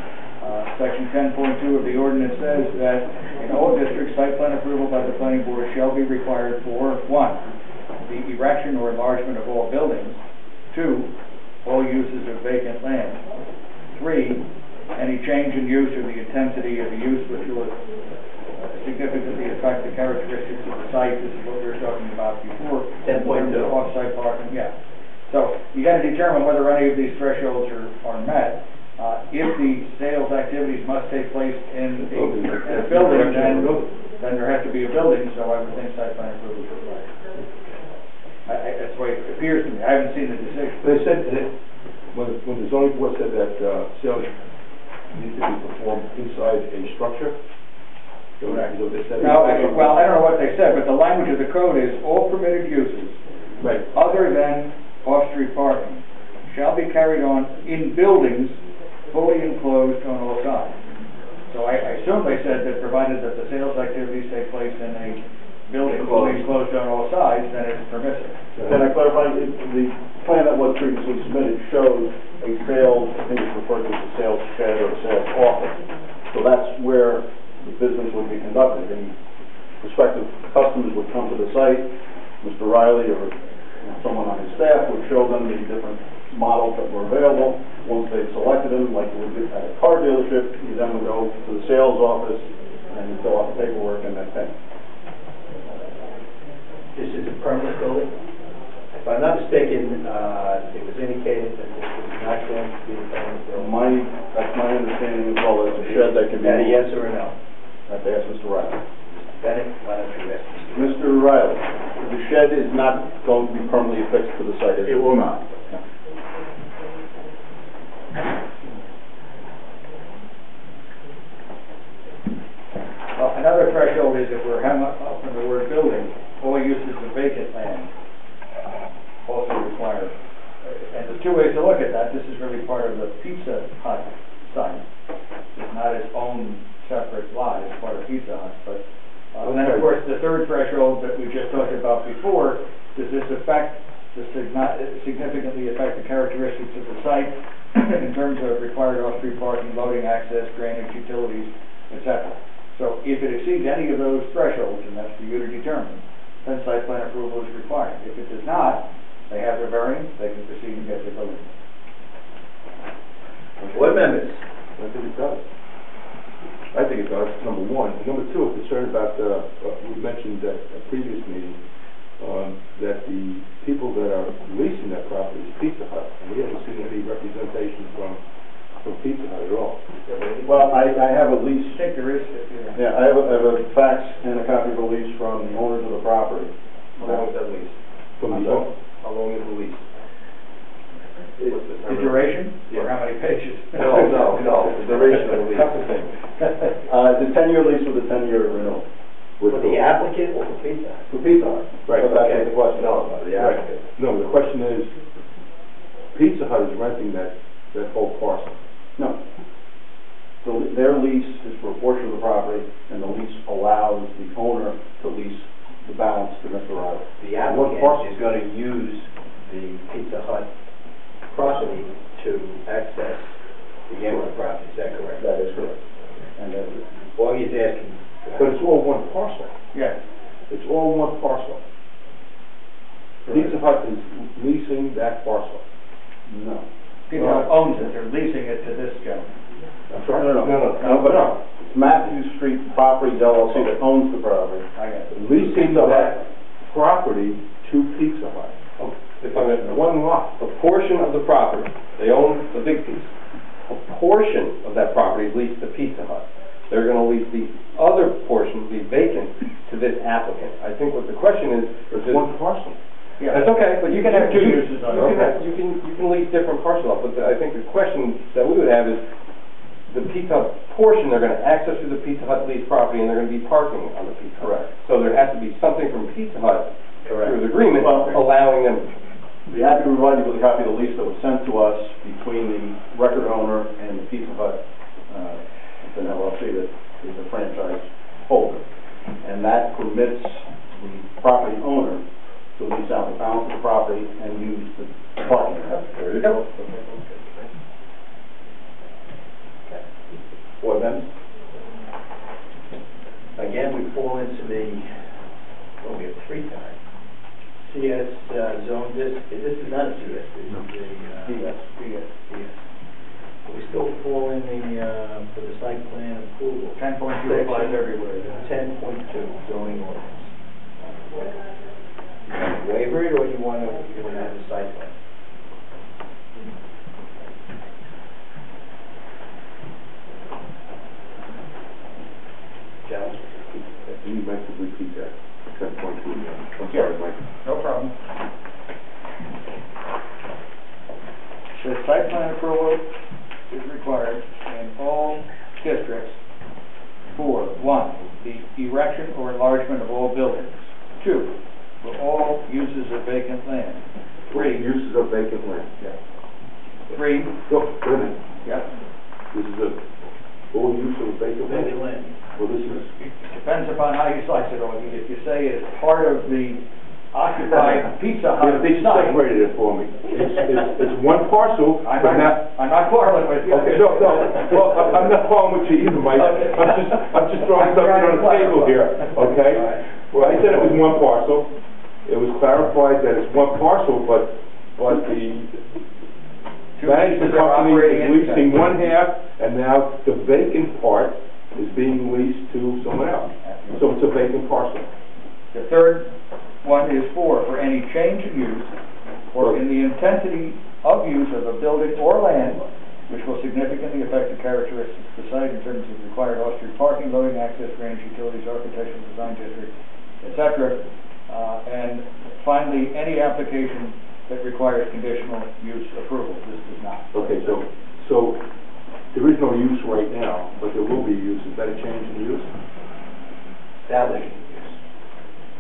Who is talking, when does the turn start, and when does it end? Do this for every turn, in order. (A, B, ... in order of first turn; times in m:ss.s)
0:00.4-0:07.4 A
0:08.0-0:11.1 A
0:11.6-0:13.2 A
0:13.9-0:17.8 A
0:18.6-0:24.7 A
0:23.0-0:23.7 B
0:25.3-0:37.1 A
0:32.1-0:33.9 C
0:38.5-0:40.9 A
0:40.8-0:41.5 C
0:42.1-0:44.3 C
0:45.1-0:47.4 C
0:48.4-0:50.1 C
0:48.4-0:53.2 A
0:53.8-0:58.6 A
0:59.1-1:00.8 A
1:01.5-1:08.4 A
1:06.1-1:06.4 C
1:08.7-1:15.8 D
1:16.3-1:19.2 D
1:19.8-1:34.5 D
1:36.9-1:38.1 B
1:39.0-1:43.8 B
1:43.6-1:46.8 D
1:45.8-1:47.4 B
1:47.9-1:48.8 D
1:49.1-1:51.0 B
1:50.7-1:55.4 D
2:03.2-2:07.9 A
2:09.3-2:14.8 A
2:15.5-2:41.5 A
2:19.4-2:19.9 C
2:43.7-2:44.4 B
2:44.8-2:45.4 C
2:46.7-2:51.6 C
2:52.2-2:58.2 C
2:58.8-2:59.8 C
3:00.1-3:00.5 E
3:00.4-3:01.8 D
3:01.6-3:02.8 A
3:02.8-3:07.3 D
3:07.0-3:07.7 E
3:08.2-3:08.7 C
3:08.3-3:08.7 D
3:09.0-3:09.8 E
3:11.5-3:11.8 E
3:11.8-3:14.6 A
3:13.8-3:16.1 E
3:14.7-3:15.8 C
3:16.9-3:18.8 D
3:19.4-3:19.8 C
3:19.5-3:21.1 B
3:21.1-3:23.6 D
3:21.9-3:22.2 C
3:22.1-3:22.5 B
3:22.7-3:23.8 E
3:23.2-3:24.9 C
3:26.1-3:28.6 C
3:30.4-3:37.1 D
3:37.2-3:40.5 B
3:37.4-3:38.0 C
3:41.3-3:43.4 B
3:43.9-3:45.3 B
3:45.2-3:45.8 D
3:46.4-3:46.8 D
3:47.2-3:48.6 B
3:48.4-3:49.5 C
3:49.7-3:50.0 A
3:50.5-3:51.6 C
3:53.3-3:53.6 D
3:53.3-3:55.6 C
3:56.3-3:56.6 D
3:57.1-3:59.3 A
3:57.2-3:57.5 C
3:59.9-4:01.4 C
4:00.0-4:04.7 D
4:04.8-4:06.2 A
4:05.1-4:08.6 C
4:05.5-4:06.1 D
4:08.8-4:13.1 E
4:09.6-4:10.3 C
4:13.7-4:22.3 E
4:21.9-4:22.8 C
4:23.2-4:25.4 A
4:23.3-4:29.0 E
4:25.0-4:25.4 C
4:29.9-4:38.9 E
4:34.4-4:34.7 D
4:37.2-4:38.2 D
4:39.5-4:48.6 D
4:49.2-4:52.0 D
4:52.6-4:56.0 D
4:56.0-4:57.5 E
5:03.4-5:05.1 B
5:05.8-5:06.8 B
5:07.6-5:11.5 B
5:11.3-5:12.1 A
5:12.3-5:12.6 B
5:13.4-5:20.3 B
5:16.8-5:18.3 A
5:22.3-5:24.9 B
5:32.8-5:33.4 B
5:33.6-5:37.2 C
5:37.4-5:38.0 A
5:41.6-5:42.9 A
5:43.5-5:46.2 A
5:47.1-5:54.7 A
5:54.3-5:56.0 C
5:56.9-5:57.4 A
5:57.5-5:58.2 C
5:58.4-5:58.7 A
5:59.3-5:59.8 C
6:00.5-6:01.7 C
6:01.5-6:02.2 B
6:02.3-6:02.9 C
6:03.0-6:09.2 A
6:08.4-6:12.5 C
6:11.8-6:14.6 A
6:13.5-6:21.5 C
6:16.2-6:19.8 A
6:22.1-6:25.6 C
6:26.8-6:28.7 A
6:26.8-6:34.9 C
6:33.4-6:33.8 A
6:35.5-6:38.7 A
6:39.3-6:57.6 A
6:57.1-6:58.4 C
6:59.1-7:02.5 C
7:03.8-7:04.8 B